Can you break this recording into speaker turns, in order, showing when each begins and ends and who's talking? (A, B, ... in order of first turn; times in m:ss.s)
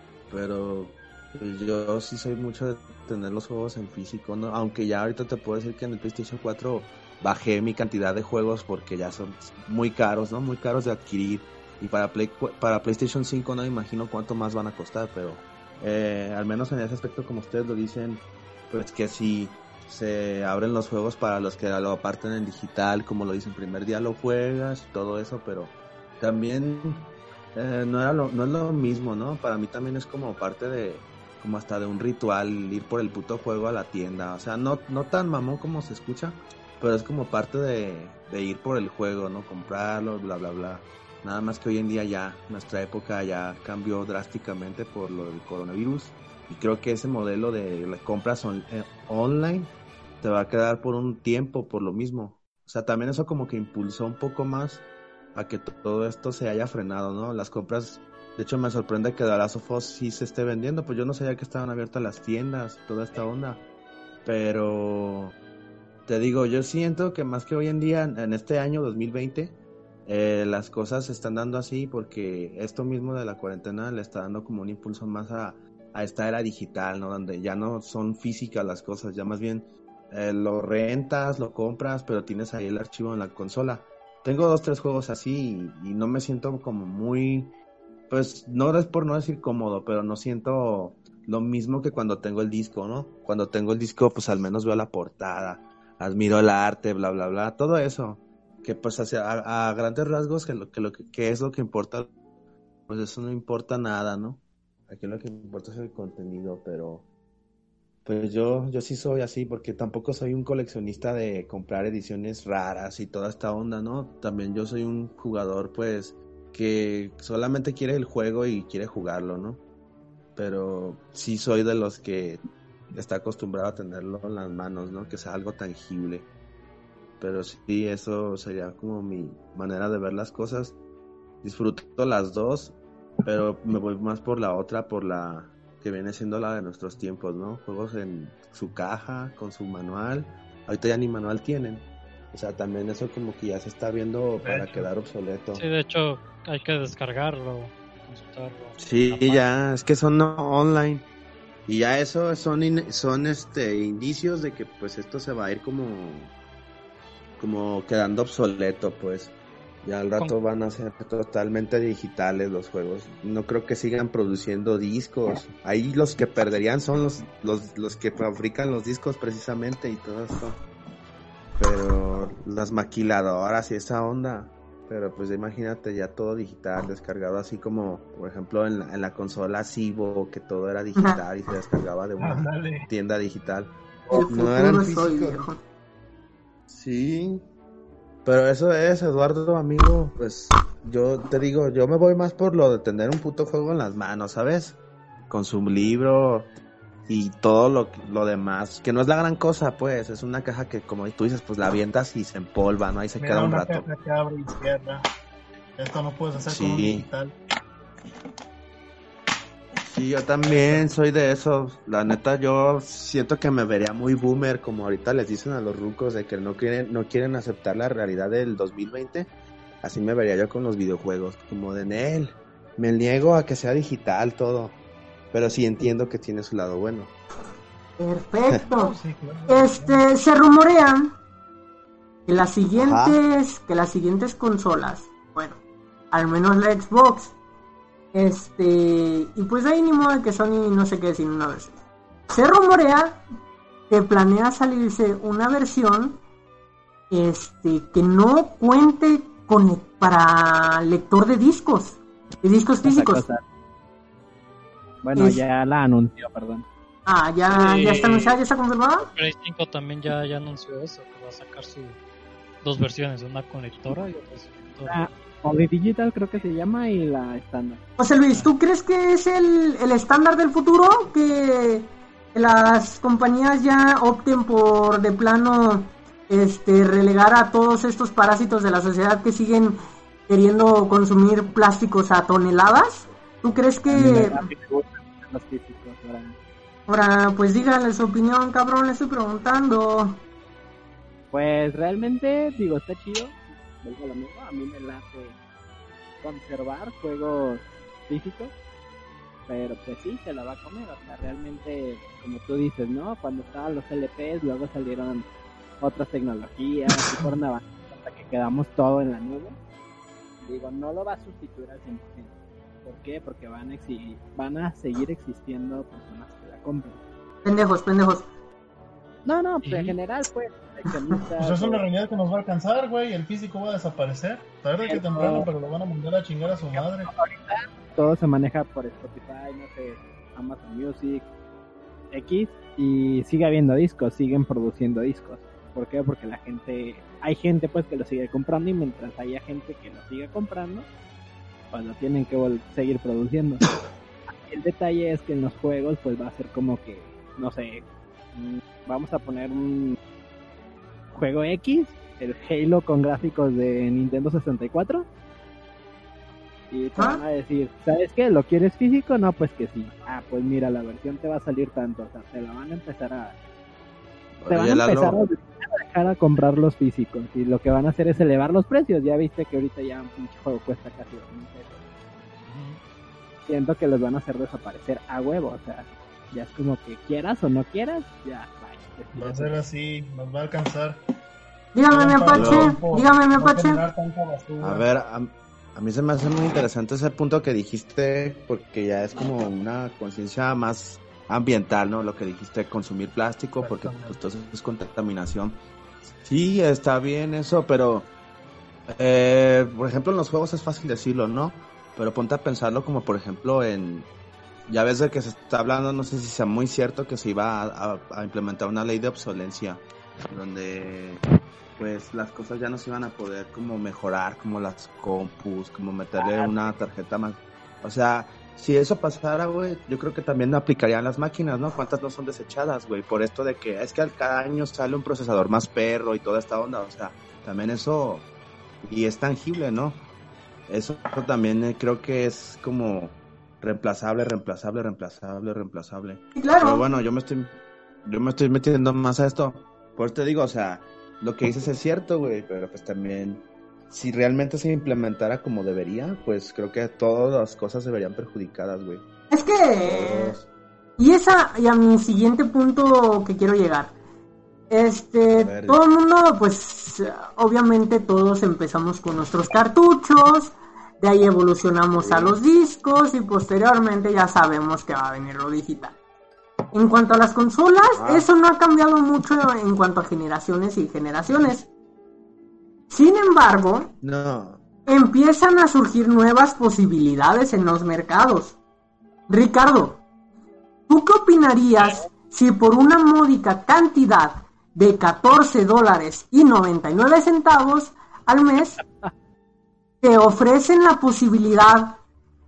0:00.3-1:03.6 A
1:04.2-1:05.4 A
1:06.1-1:27.5 A
1:28.1-1:42.1 A
1:42.9-1:47.1 A
1:48.0-1:59.6 A
2:00.4-2:06.3 A
2:07.2-2:10.8 A
2:11.4-2:25.6 A
2:24.4-2:24.9 B
2:25.6-2:29.4 C
2:28.8-2:31.1 A
2:31.7-2:36.3 A
2:37.4-2:50.6 A
2:51.6-3:05.5 A
3:02.2-3:02.9 B
3:04.1-3:05.6 D
3:06.7-3:07.5 A
3:08.2-3:16.5 A
3:17.1-3:23.8 A
3:23.2-3:25.0 B
3:25.8-3:27.4 B
3:26.4-3:27.1 A
3:29.8-3:44.8 A
3:30.4-3:30.8 B
3:45.3-3:47.1 A
3:48.0-3:49.0 D
3:48.7-3:50.0 B
3:49.5-3:51.1 D
3:52.3-3:55.6 D
3:52.8-3:53.2 A
3:56.1-3:57.3 D
3:58.1-4:01.7 D
4:02.3-4:03.2 D
4:03.9-4:06.2 D
4:07.1-4:13.2 D
4:12.8-4:13.4 E
4:15.0-4:16.7 E
4:15.2-4:15.4 D
4:17.1-4:19.1 D
4:17.5-4:18.4 C
4:19.0-4:22.0 C
4:22.6-4:25.0 C
4:24.9-4:27.8 E
4:28.0-4:44.5 D
4:43.9-4:46.4 E
4:46.9-4:50.2 D
4:51.3-4:55.4 E
4:56.2-4:58.5 E
4:59.5-5:05.3 E
5:05.8-5:09.6 E
5:10.4-5:12.3 E
5:12.8-5:17.0 E
5:17.4-5:18.3 D
5:19.2-5:21.8 E
5:19.6-5:20.0 C
5:21.4-5:27.1 B
5:24.9-5:25.5 E
5:26.7-5:31.3 E
5:32.1-5:40.9 E
5:41.7-5:43.6 E
5:44.4-5:50.0 E
5:51.1-5:55.1 E
5:56.7-6:03.4 E
5:57.0-5:57.2 D
6:04.4-6:05.2 A
6:04.5-6:11.8 E
6:12.5-6:12.8 C
6:13.5-6:19.5 E
6:19.2-6:21.0 B
6:21.7-6:23.8 D
6:21.9-6:24.8 B
6:22.3-6:22.8 A
6:24.6-6:38.1 A
6:33.6-6:34.2 B
6:38.9-6:44.1 A
6:44.7-7:08.3 A
7:08.8-7:10.1 A
7:10.7-7:29.0 A
7:16.4-7:16.8 D
7:29.3-7:30.4 D
7:29.8-7:30.5 A
7:31.0-7:33.9 D
7:34.7-7:46.0 D
7:35.3-7:35.8 A
7:41.9-7:42.4 A
7:46.7-7:51.7 D
7:48.0-7:48.3 A
7:52.9-7:53.9 D
7:54.0-7:54.6 A
7:54.9-7:58.6 D
7:59.3-8:00.0 D
8:00.9-8:08.8 D
8:01.8-8:02.1 C
8:10.0-8:12.0 D